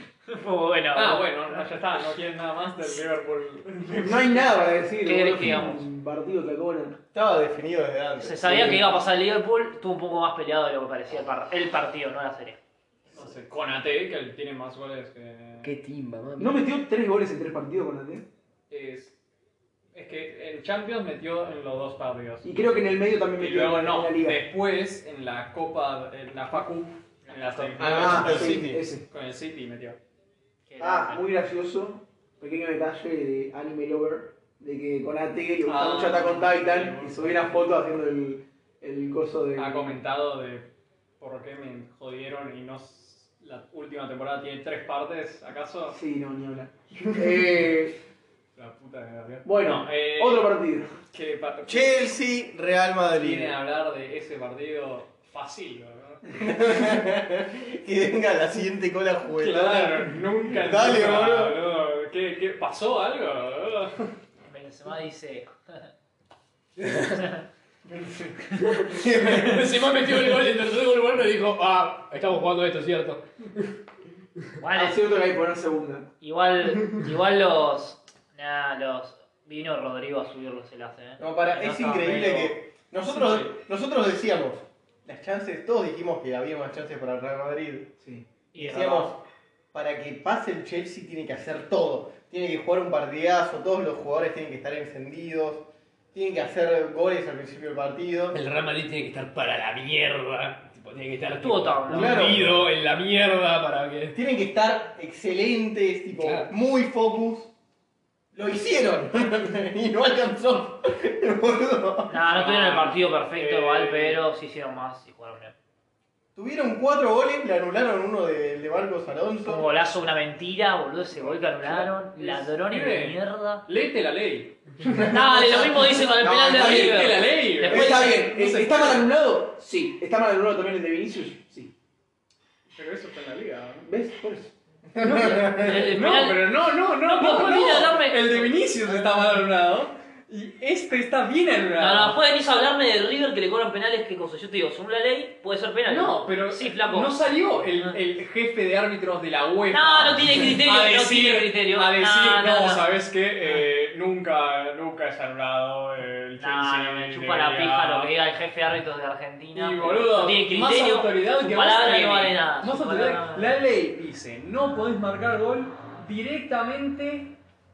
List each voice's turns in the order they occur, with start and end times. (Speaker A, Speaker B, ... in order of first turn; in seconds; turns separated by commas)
Speaker A: 0.3-1.3, Speaker B: 0.9-4.8, Speaker C: 4.0-7.0, Speaker A: 5.0-5.8, Speaker D: 7.1-8.8, Speaker A: 8.2-12.6, Speaker B: 13.1-15.7, Speaker E: 15.6-16.6, Speaker C: 16.4-18.3, Speaker B: 18.7-19.1, Speaker B: 19.9-22.5, Speaker C: 22.4-24.4, Speaker B: 23.4-30.0, Speaker A: 27.2-28.3, Speaker D: 27.8-28.8, Speaker C: 27.8-29.0, Speaker A: 30.7-31.2, Speaker C: 30.8-40.0, Speaker B: 35.6-37.6, Speaker B: 39.5-46.0, Speaker C: 45.9-48.0, Speaker B: 48.5-52.0, Speaker C: 49.4-50.9, Speaker D: 51.6-53.6, Speaker B: 53.0-56.3, Speaker D: 56.3-61.6, Speaker B: 59.3-64.1, Speaker A: 64.5-65.9, Speaker E: 66.8-67.2, Speaker A: 67.2-67.4, Speaker B: 67.9-68.3, Speaker E: 68.6-73.7, Speaker D: 69.0-69.6, Speaker A: 74.6-75.0, Speaker C: 74.7-76.1, Speaker A: 76.2-82.3, Speaker D: 81.2-87.9, Speaker B: 81.8-82.5, Speaker B: 83.1-83.6, Speaker C: 88.0-88.2, Speaker A: 88.5-89.1, Speaker D: 88.5-89.2, Speaker D: 89.7-98.4, Speaker E: 98.3-104.2, Speaker A: 101.4-102.5, Speaker C: 101.9-102.4, Speaker D: 104.1-107.5, Speaker E: 106.1-106.5, Speaker D: 108.3-112.1, Speaker A: 112.1-115.5, Speaker B: 112.2-114.2, Speaker D: 116.3-119.7, Speaker A: 119.4-123.7, Speaker B: 122.1-129.1, Speaker D: 124.9-125.2, Speaker A: 125.1-128.2, Speaker C: 126.2-131.7, Speaker B: 132.7-133.9, Speaker C: 133.8-134.5, Speaker D: 134.9-135.8, Speaker B: 135.0-142.2, Speaker A: 135.5-138.5, Speaker A: 141.8-147.1, Speaker B: 145.9-158.1, Speaker A: 149.7-152.8, Speaker A: 156.4-163.5, Speaker B: 159.5-167.4